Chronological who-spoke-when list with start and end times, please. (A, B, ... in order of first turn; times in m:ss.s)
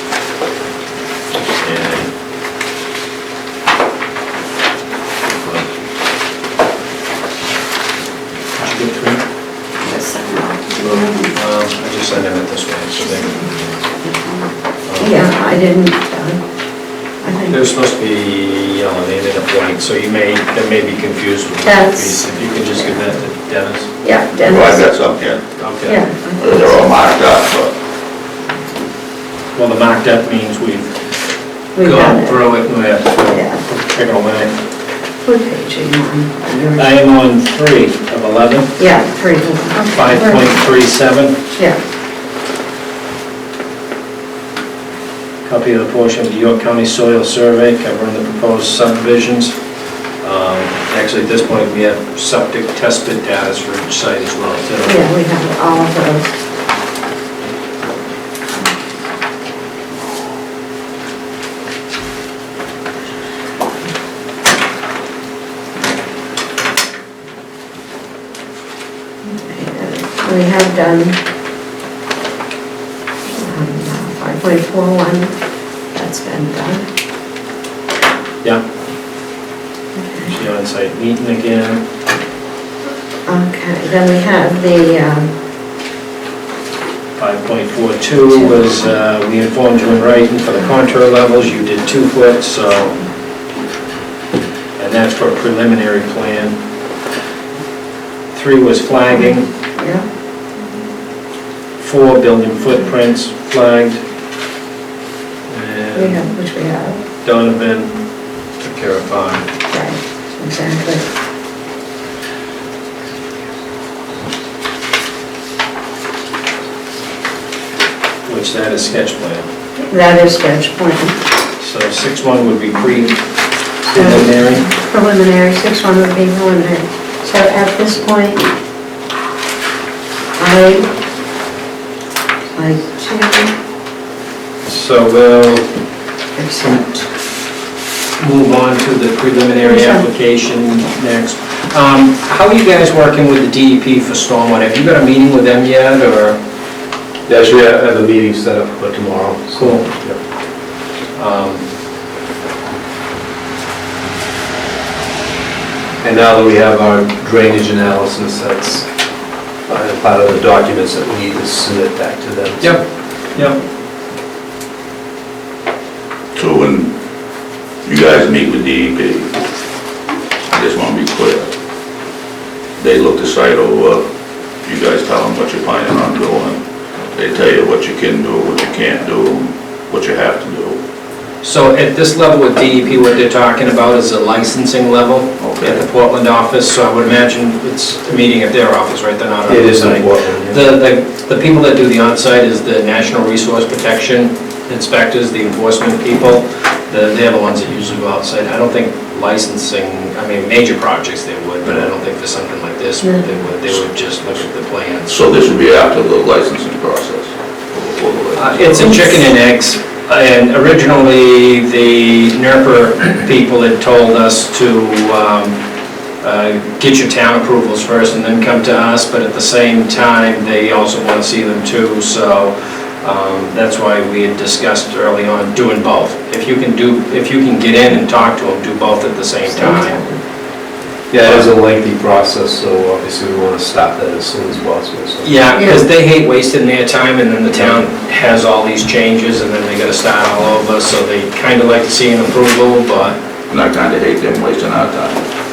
0:01.6-0:02.1 A
0:05.3-0:05.6 A
0:08.6-0:09.2 A
0:09.8-0:11.3 B
0:10.8-0:13.6 A
0:13.9-0:14.5 B
0:14.9-0:15.1 A
0:15.0-0:16.4 B
0:17.2-0:17.6 B
0:17.5-0:23.9 A
0:21.6-0:22.3 B
0:24.0-0:24.8 B
0:24.4-0:25.4 C
0:25.6-0:26.0 A
0:25.9-0:27.0 B
0:26.4-0:27.7 C
0:29.6-0:31.0 A
0:31.8-0:32.4 B
0:31.8-0:34.5 A
0:33.3-0:33.6 B
0:35.2-0:37.0 B
0:36.8-0:38.8 A
0:38.8-0:40.5 B
0:39.9-0:41.4 A
0:45.4-0:49.6 A
0:50.2-0:55.1 A
0:54.8-0:56.3 B
1:09.2-1:11.2 B
1:13.3-1:15.3 B
1:15.9-1:16.8 B
1:20.0-1:20.3 B
1:20.3-1:21.8 A
1:23.3-1:25.3 B
1:27.2-1:33.0 A
1:34.8-1:36.6 A
1:38.3-1:39.5 A
1:39.8-1:40.0 B
1:41.8-1:44.0 A
1:45.5-1:46.3 A
1:46.0-1:47.0 B
1:47.2-1:47.9 A
1:48.6-1:49.4 A
1:49.7-1:51.0 B
1:58.2-1:59.5 A
1:59.8-2:01.2 B
2:01.6-2:03.2 A
2:03.8-2:04.7 A
2:04.0-2:08.5 B
2:10.4-2:10.9 B
2:12.6-2:13.5 B
2:14.7-2:15.7 A
2:16.4-2:17.0 B
2:18.2-2:26.4 A
2:19.6-2:20.0 B
2:27.3-2:30.2 D
2:29.6-2:29.9 A
2:31.2-2:31.6 A
2:36.0-2:38.9 D
2:39.7-2:42.8 D
2:42.6-2:43.6 A
2:46.4-2:46.9 C
2:47.8-2:49.4 C
2:50.5-2:51.5 C
2:52.8-2:54.0 C
2:54.6-2:56.6 C
2:57.1-3:00.8 C
3:01.4-3:25.2 A
3:05.4-3:05.8 C
3:09.5-3:10.6 D
3:25.1-3:29.2 C
3:28.3-3:35.6 A
3:36.2-3:50.0 A
3:49.6-3:50.2 B
3:51.1-3:55.4 D
3:51.2-3:51.5 A
3:55.2-4:03.2 A
3:55.6-3:55.8 B
4:03.5-4:05.2 C